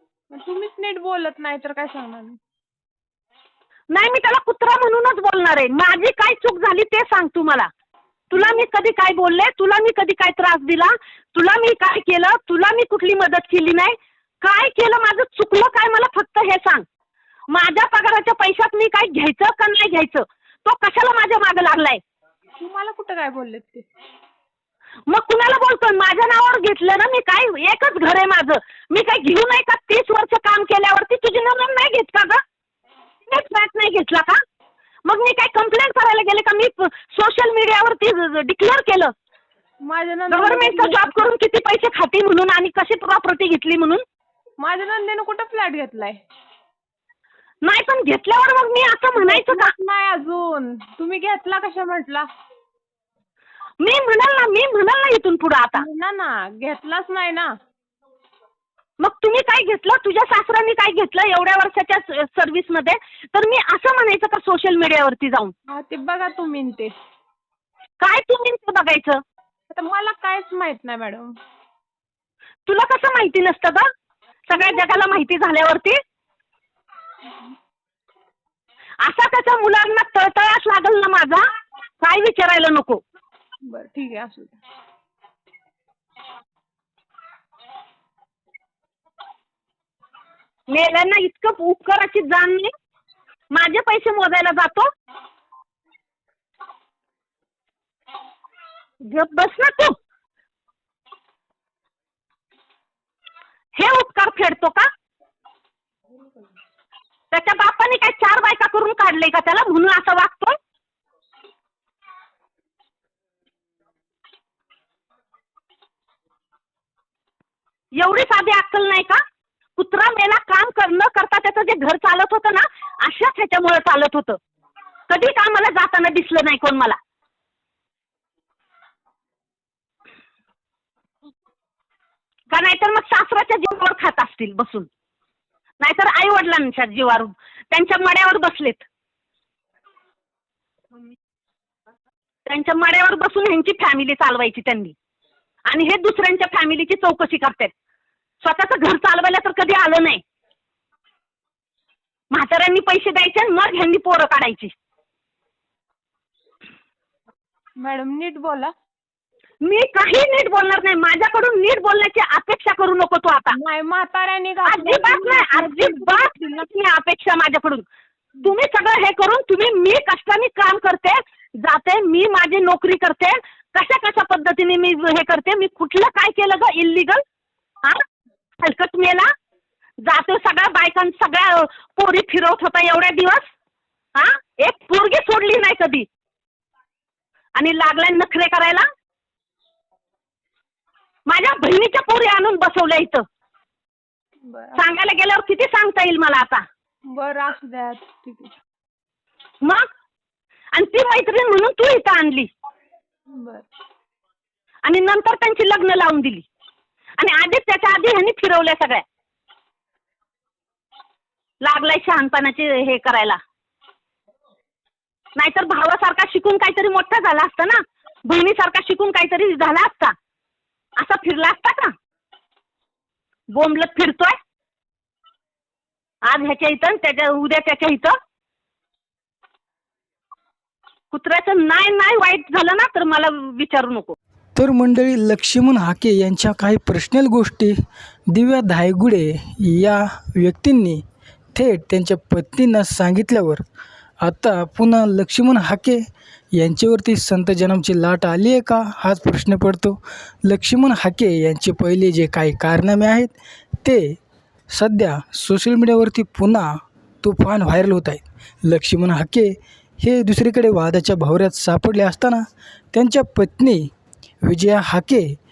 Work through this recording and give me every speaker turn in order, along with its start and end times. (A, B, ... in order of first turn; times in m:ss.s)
0:00.3-0:02.4 A
0:03.9-0:07.7 B
0:08.3-0:16.8 B
0:08.3-0:08.7 A
0:17.5-0:22.0 B
0:22.6-0:23.9 A
0:25.1-0:32.4 B
0:33.3-0:34.4 B
0:35.0-0:39.1 B
0:39.8-0:41.2 A
0:40.3-0:44.0 B
0:44.6-0:46.2 A
0:47.6-0:49.7 B
0:49.2-0:52.3 A
0:53.8-0:55.8 B
0:55.6-0:57.5 A
0:59.0-1:05.5 B
1:05.7-1:06.9 A
1:08.0-1:09.2 B
1:09.7-1:11.4 A
1:12.7-1:13.9 B
1:14.5-1:16.0 B
1:19.0-1:21.4 B
1:22.0-1:23.0 B
1:23.7-1:24.6 A
1:30.7-1:32.7 B
1:33.5-1:34.9 B
1:39.1-1:40.0 B
1:43.8-1:44.9 B
1:47.3-1:50.6 B
1:58.0-1:59.2 B
1:59.8-2:04.4 B
2:05.1-2:07.0 B
2:12.5-2:14.9 B
2:15.8-2:18.9 B
2:22.5-2:25.0 B
2:25.7-2:27.7 B
2:28.4-2:30.2 B
2:32.3-2:34.7 B
2:37.8-2:38.7 A
2:39.6-2:43.6 B
2:43.5-2:46.7 A
2:44.6-2:47.8 B
2:48.4-2:57.2 B
2:58.6-2:59.3 B
3:00.0-3:03.5 B
3:04.2-3:06.1 B
3:07.6-3:08.9 B
3:11.3-3:13.2 B
3:14.5-3:14.8 A
3:14.8-3:16.6 B
3:17.1-3:18.5 A
3:20.7-3:22.5 B
3:23.3-3:23.7 A
3:24.8-3:26.4 B
3:27.2-3:29.0 B
3:31.6-3:33.4 B
3:35.4-3:40.1 B
3:41.0-3:41.9 B
3:43.5-3:44.4 B
3:46.3-3:48.2 B
3:51.1-3:54.2 B
3:54.6-3:57.8 C
3:58.3-4:01.0 C
4:01.5-4:03.6 C
4:04.2-4:06.0 C
4:06.6-4:14.2 C
4:14.7-4:16.7 C
4:17.2-4:23.9 C
4:24.4-4:25.4 C